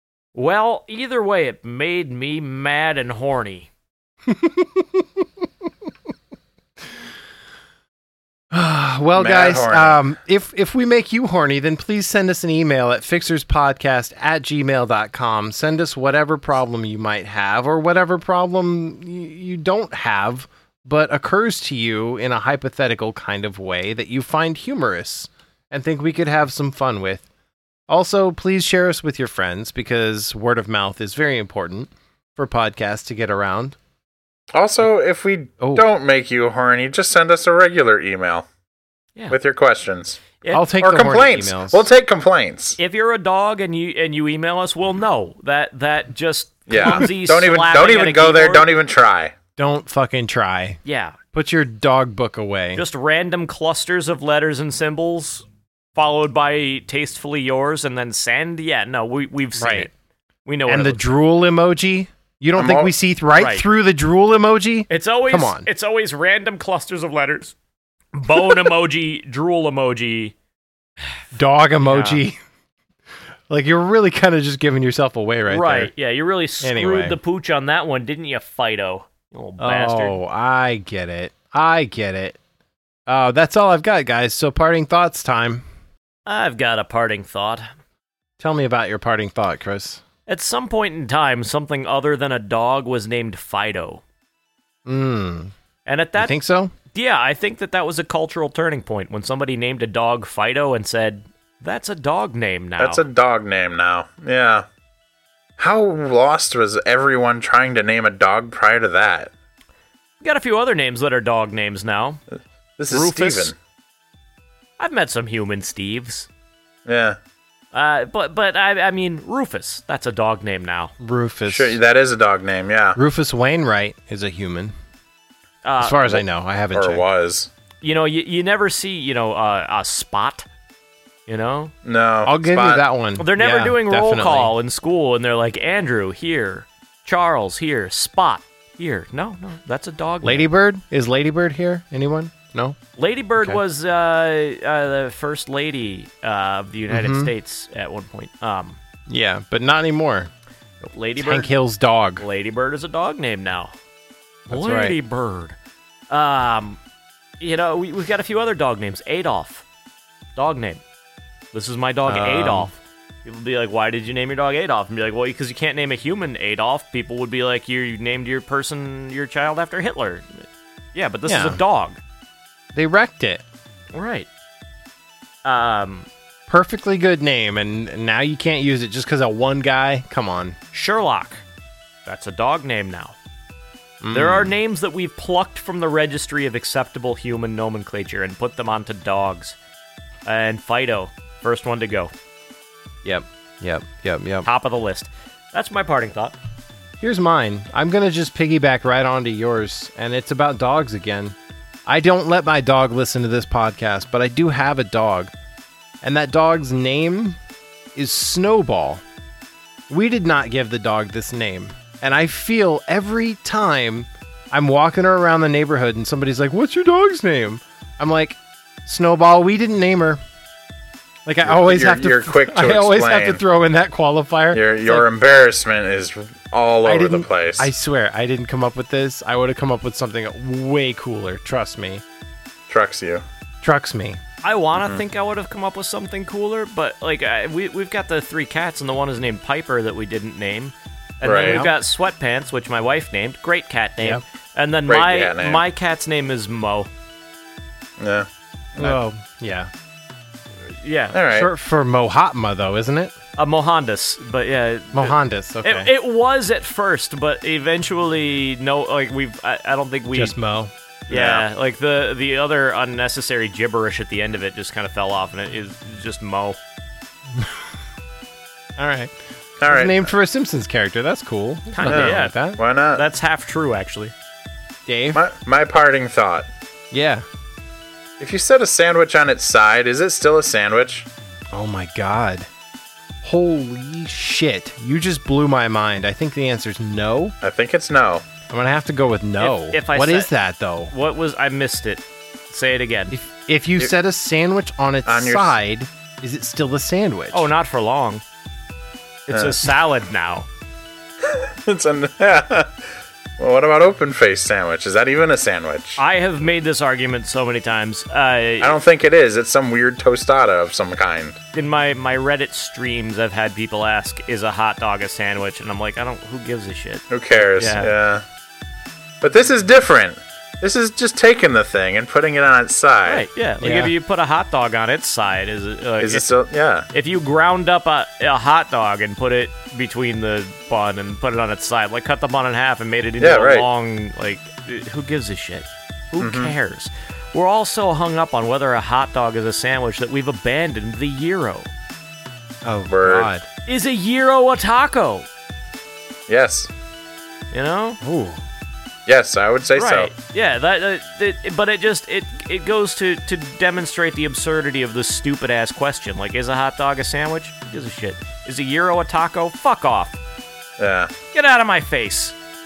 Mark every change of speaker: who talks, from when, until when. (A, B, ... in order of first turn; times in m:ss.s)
0:00.3-0:03.7 A
0:04.3-0:04.8 B
0:08.5-0:27.2 B
0:09.1-0:10.0 C
0:27.9-0:33.8 B
0:34.5-0:38.5 C
0:39.3-0:40.2 C
0:40.4-0:40.7 A
0:40.5-0:41.9 B
0:40.8-0:42.8 C
0:42.8-0:48.7 A
0:46.7-0:49.3 C
0:49.6-0:50.8 B
0:50.8-0:51.2 A
0:51.3-0:52.8 B
0:52.7-0:59.9 A
0:59.6-0:59.9 B
1:00.4-1:01.1 A
1:00.7-1:05.6 B
1:02.6-1:02.9 C
1:03.4-1:03.6 A
1:04.9-1:07.5 A
1:08.1-1:10.3 A
1:11.3-1:12.4 B
1:11.8-1:12.2 A
1:13.5-1:15.9 B
1:15.5-1:20.2 A
1:16.6-1:17.2 B
1:19.6-1:22.4 B
1:23.1-1:25.6 B
1:26.2-1:27.7 A
1:28.4-1:30.0 B
1:30.3-1:34.0 A
1:34.8-1:35.5 B
1:35.8-1:36.4 A
1:36.2-1:36.7 B
1:36.9-1:43.0 A
1:42.8-1:44.6 C
1:45.6-1:49.3 C
1:50.2-1:52.2 A
1:52.8-1:53.6 C
1:52.9-1:53.5 A
1:54.8-1:56.3 A
1:56.8-1:57.2 C
1:57.7-2:00.9 A
2:01.0-2:01.8 B
2:01.5-2:03.0 C
2:03.0-2:04.7 B
2:05.6-2:06.1 A
2:05.8-2:07.0 B
2:06.7-2:07.5 C
2:07.8-2:10.4 A
2:11.3-2:11.7 A
2:11.8-2:12.8 C
2:12.2-2:14.5 B
2:13.2-2:20.5 A
2:20.2-2:22.8 B
2:23.0-2:28.8 A
2:26.9-2:27.3 B
2:29.1-2:30.3 B
2:30.8-2:31.5 A
2:31.2-2:32.2 B
2:32.2-2:33.7 A
2:34.5-2:35.0 B
2:34.5-2:35.6 A
2:36.1-2:36.8 A
2:37.4-2:39.6 A
2:40.4-2:40.8 A
2:41.5-2:52.0 A
2:42.0-2:42.7 B
2:51.3-2:51.6 B
2:52.7-2:53.4 B
2:53.9-2:54.3 A
2:55.4-2:56.1 A
2:56.5-3:00.6 B
3:00.7-3:01.4 A
3:02.0-3:03.2 A
3:04.0-3:04.6 B
3:04.1-3:09.6 A
3:10.2-3:12.1 A
3:13.0-3:14.5 B
3:14.4-3:16.4 A
3:17.0-3:21.3 B
3:21.8-3:25.3 B
3:26.0-3:27.4 B
3:27.9-3:29.0 B
3:29.9-3:40.2 B
3:41.2-3:45.0 B
3:41.4-3:43.4 C
3:44.5-3:47.7 C
3:46.8-3:52.0 B
3:52.7-3:53.2 C
3:53.6-3:54.2 B
3:54.4-4:06.9 A
4:01.2-4:01.6 C
4:01.4-4:01.7 B
4:04.8-4:05.6 C
4:08.0-4:09.0 C
4:08.8-4:09.7 B
4:10.7-4:11.2 A
4:11.1-4:11.5 C
4:11.3-4:13.1 B
4:13.4-4:20.4 A
4:14.9-4:15.9 B
4:20.1-4:20.7 B
4:21.1-4:26.6 A
4:21.1-4:21.4 C
4:28.8-4:29.1 B
4:29.6-4:30.1 C
4:29.6-4:32.6 B
4:31.7-4:32.4 A
4:31.9-4:33.0 C
4:32.9-4:34.1 A
4:34.8-4:35.2 B
4:35.1-4:36.5 C
4:36.9-4:37.2 B
4:38.2-4:41.1 C
4:41.5-4:42.5 B
4:43.2-4:47.3 B
4:47.4-4:48.2 C
4:48.5-4:50.9 B
4:49.4-4:50.3 A
4:50.9-4:53.1 A
4:53.1-4:57.5 B
4:55.0-4:55.5 C
4:57.3-4:58.2 A
4:59.3-5:00.5 A
4:59.3-4:59.6 C
5:01.2-5:02.7 C
5:03.4-5:06.0 C
5:06.0-5:08.8 A
5:08.6-5:11.4 C
5:11.5-5:17.9 A
5:17.1-5:18.2 C
5:19.2-5:23.2 C
5:23.0-5:26.2 A
5:23.6-5:23.9 B
5:26.0-5:26.9 C
5:26.9-5:41.7 A
5:33.2-5:33.7 C
5:36.2-5:36.5 C
5:42.6-5:43.4 B
5:42.9-5:43.3 C
5:43.7-5:45.3 A
5:46.3-5:46.7 C
5:47.5-5:48.0 A
5:48.0-5:48.4 B
5:49.0-5:50.1 C
5:49.7-6:00.2 A
6:00.8-6:01.1 C
6:01.3-6:02.3 A